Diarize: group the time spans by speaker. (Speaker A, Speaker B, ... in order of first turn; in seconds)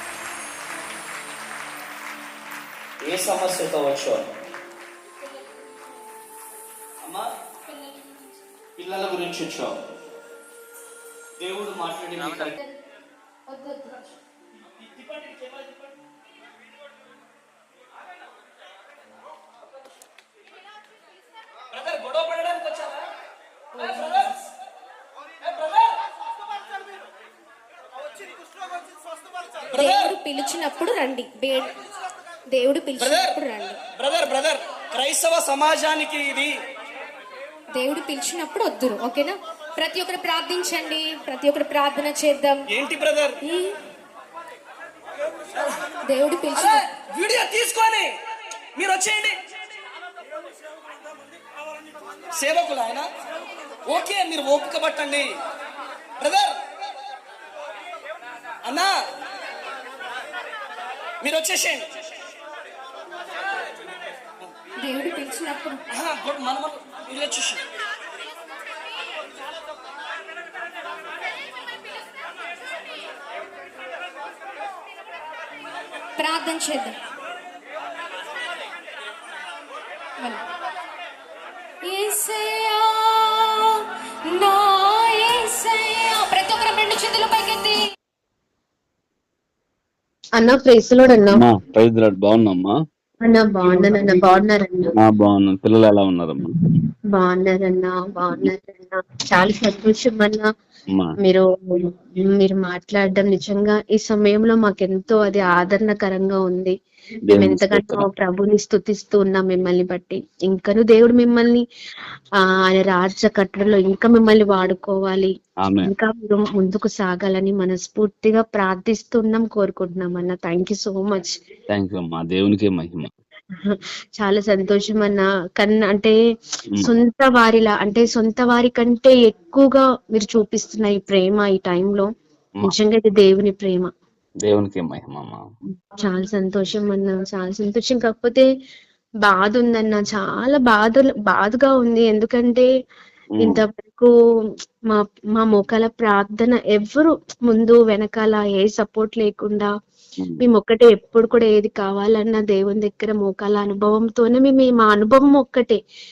Speaker A: 3.0-4.3, 8.8-9.7, 11.4-12.6, 15.0-15.6, 21.7-23.0, 23.8-24.2, 25.4-26.0, 29.7-30.1, 33.0-33.4, 33.9-36.5, 42.7-43.4, 46.5-48.1, 48.8-49.4, 52.3-53.1, 53.9-55.3, 56.2-56.6, 58.6-58.9, 61.2-61.9, 65.9-67.6
Speaker B: 7.7-8.0, 13.5-14.0, 23.8-24.3, 29.7-31.7, 32.5-33.8, 37.8-42.6, 43.4-43.7, 46.0-46.8, 64.8-65.8, 76.2-77.0, 81.8-87.8
Speaker C: 90.4-91.4, 93.2-94.9, 97.1-100.5, 101.2-106.7, 107.3-111.6, 112.4-115.3, 115.8-121.3, 123.6-126.1, 126.8-132.1, 132.6-133.9, 136.0-138.4, 139.2-142.7, 143.4-144.1, 144.9-149.7, 150.4-155.8
Speaker D: 91.3-92.7, 95.0-96.5, 107.3-108.1, 115.6-115.9, 121.7-123.1, 134.4-135.4